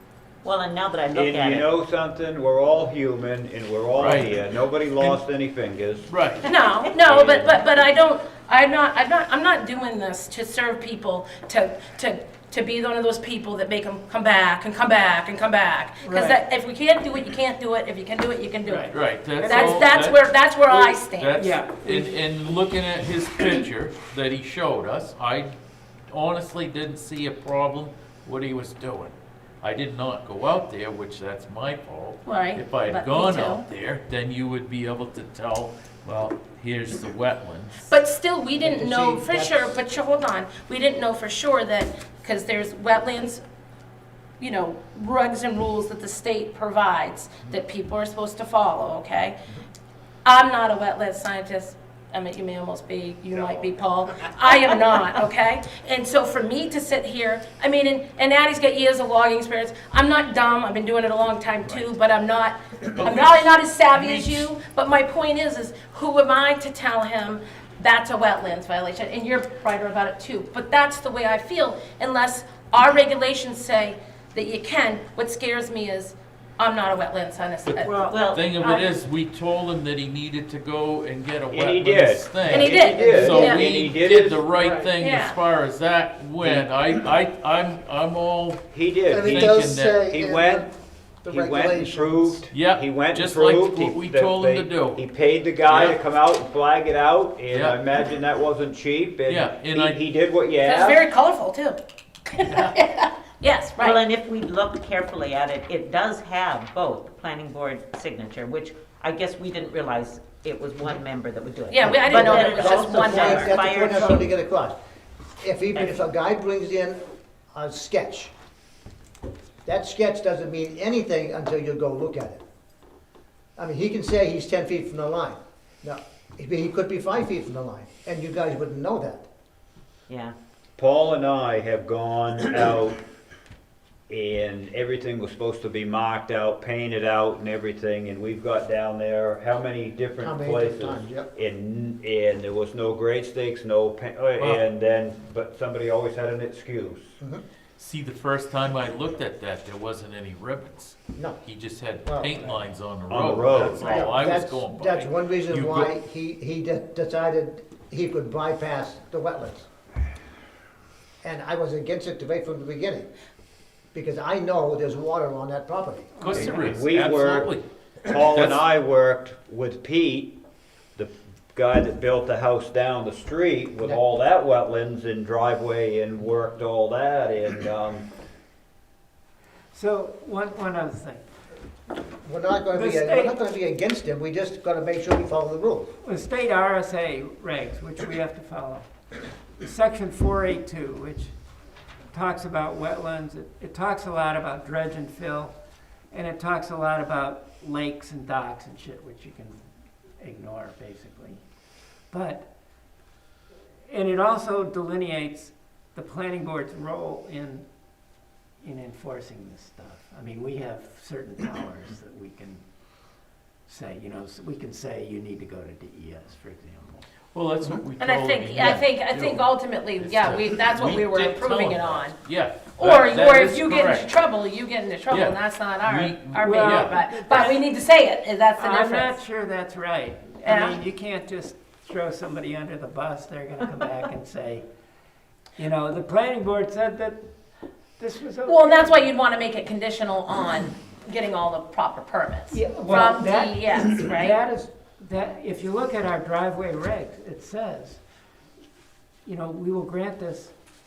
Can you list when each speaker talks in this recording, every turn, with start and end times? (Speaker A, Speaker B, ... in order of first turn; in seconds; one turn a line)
Speaker A: 0.4-1.7
Speaker B: 1.1-6.1
Speaker C: 4.0-4.3
Speaker C: 6.1-6.5
Speaker D: 6.4-21.4
Speaker B: 7.2-7.5
Speaker E: 16.0-16.4
Speaker E: 18.7-19.9
Speaker C: 18.9-25.5
Speaker E: 21.4-22.2
Speaker C: 26.1-37.9
Speaker D: 32.3-33.6
Speaker D: 37.8-43.4
Speaker F: 38.6-39.7
Speaker D: 44.4-49.4
Speaker D: 50.2-78.9
Speaker C: 62.9-64.5
Speaker C: 77.7-88.7
Speaker A: 78.1-78.5
Speaker B: 81.5-84.5
Speaker D: 82.5-83.7
Speaker F: 82.7-83.8
Speaker F: 84.6-84.9
Speaker D: 85.0-85.4
Speaker B: 86.4-86.7
Speaker B: 88.7-90.7
Speaker F: 89.1-90.7
Speaker C: 89.3-90.1
Speaker F: 91.2-92.4
Speaker B: 91.2-101.0
Speaker C: 92.5-95.0
Speaker C: 95.7-96.0
Speaker C: 97.5-97.8
Speaker C: 99.3-100.0
Speaker D: 100.6-101.8
Speaker D: 102.3-104.0
Speaker A: 103.8-114.3
Speaker D: 111.7-113.5
Speaker F: 111.8-114.8
Speaker F: 115.4-117.0
Speaker F: 117.5-118.3
Speaker F: 119.7-122.4
Speaker F: 123.6-129.3
Speaker A: 130.1-130.3
Speaker B: 130.8-133.0
Speaker B: 134.1-147.2
Speaker F: 140.2-141.3
Speaker C: 144.4-144.6
Speaker C: 147.8-155.9
Speaker F: 152.0-152.7
Speaker B: 153.1-154.2
Speaker F: 153.7-159.7
Speaker F: 161.2-163.1
Speaker F: 163.9-166.5
Speaker C: 166.2-167.7
Speaker E: 166.2-166.8
Speaker B: 166.3-170.4
Speaker C: 168.2-168.7
Speaker B: 171.0-178.1
Speaker E: 179.7-181.2
Speaker F: 182.1-185.9
Speaker E: 182.7-183.4
Speaker E: 186.0-188.9
Speaker E: 189.6-191.3
Speaker E: 192.1-195.6
Speaker E: 196.1-199.6
Speaker E: 200.2-201.4
Speaker E: 202.1-202.5
Speaker E: 203.9-207.6
Speaker E: 208.6-212.6
Speaker E: 213.7-217.1
Speaker C: 217.3-224.1
Speaker D: 218.0-222.2
Speaker D: 222.8-229.2
Speaker C: 225.1-227.0
Speaker E: 226.4-227.6
Speaker E: 228.6-234.7
Speaker D: 230.4-230.8
Speaker E: 235.6-237.3
Speaker E: 238.0-239.1
Speaker D: 238.4-244.4
Speaker F: 242.5-243.0
Speaker E: 242.6-248.0
Speaker E: 249.2-250.5